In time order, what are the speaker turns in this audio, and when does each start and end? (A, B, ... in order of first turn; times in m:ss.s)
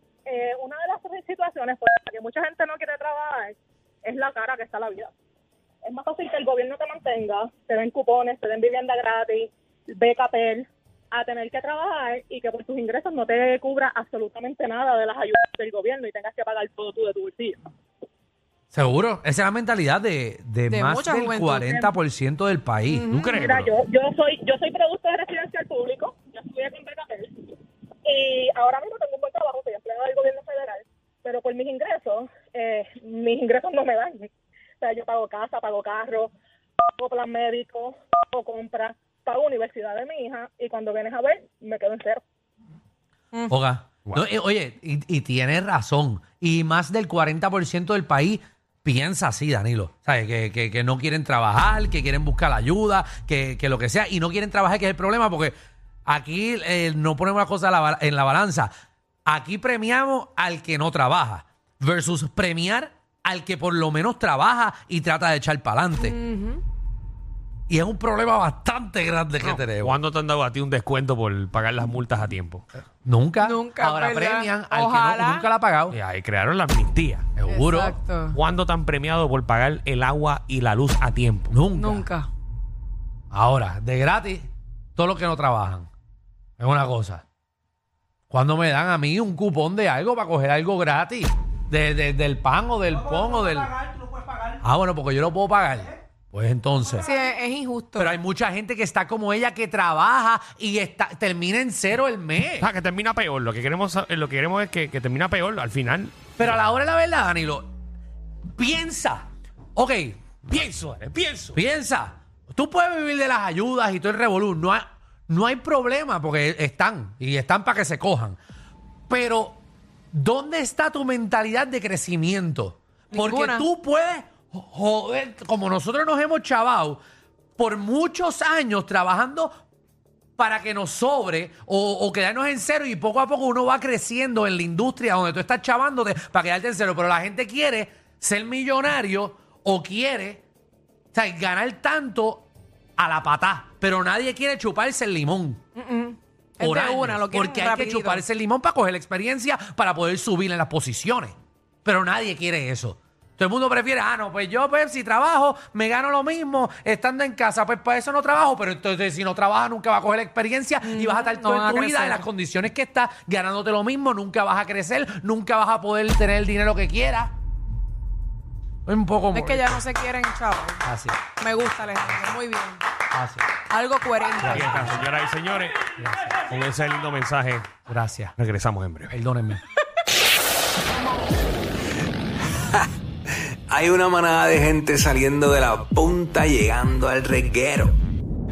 0:00.3-0:05.1 A
0:05.8-0:17.6 A
0:18.7-0:23.1 B
0:20.7-0:21.9 C
0:22.9-0:23.1 C
0:23.1-0:23.7 D
0:23.2-0:27.3 A
0:28.0-0:34.2 A
0:34.8-0:36.3 A
0:37.0-0:42.2 A
0:43.3-0:43.6 C
0:43.5-0:55.5 B
0:56.1-0:58.7 B
0:59.2-1:06.2 B
1:06.0-1:06.6 C
1:07.7-1:10.0 B
1:09.4-1:12.6 D
1:13.0-1:16.0 B
1:13.4-1:15.5 C
1:15.9-1:17.3 D
1:17.4-1:18.0 B
1:17.5-1:18.4 C
1:18.3-1:21.6 D
1:21.5-1:22.1 B
1:21.7-1:22.3 C
1:23.3-1:25.9 B
1:26.6-1:27.2 B
1:28.3-1:33.8 B
1:34.6-1:37.1 B
1:37.0-1:38.1 C
1:38.0-1:42.7 B
1:42.6-1:46.2 D
1:46.4-1:47.7 B
1:48.6-1:49.2 B
1:49.8-1:50.4 B
1:50.5-1:51.6 D
1:51.5-1:58.4 B
1:59.1-1:59.6 B
2:00.1-2:07.0 B
2:03.1-2:03.6 C
2:07.6-2:09.5 B
2:10.4-2:20.4 B
2:21.1-2:25.6 B
2:25.8-2:28.2 C
2:26.6-2:31.3 B
2:31.8-2:47.3 B
2:40.8-2:42.2 C
2:48.8-2:49.8 B
2:49.3-2:52.8 C
2:50.8-2:51.3 B
2:53.1-2:53.4 B
2:53.7-2:54.8 C
2:54.4-2:55.0 B
2:54.5-2:55.8 D
2:56.0-2:56.3 B
2:56.5-2:57.7 D
2:57.9-2:58.3 B
2:58.4-2:59.1 D
2:59.1-2:59.6 B
3:03.7-3:07.9 E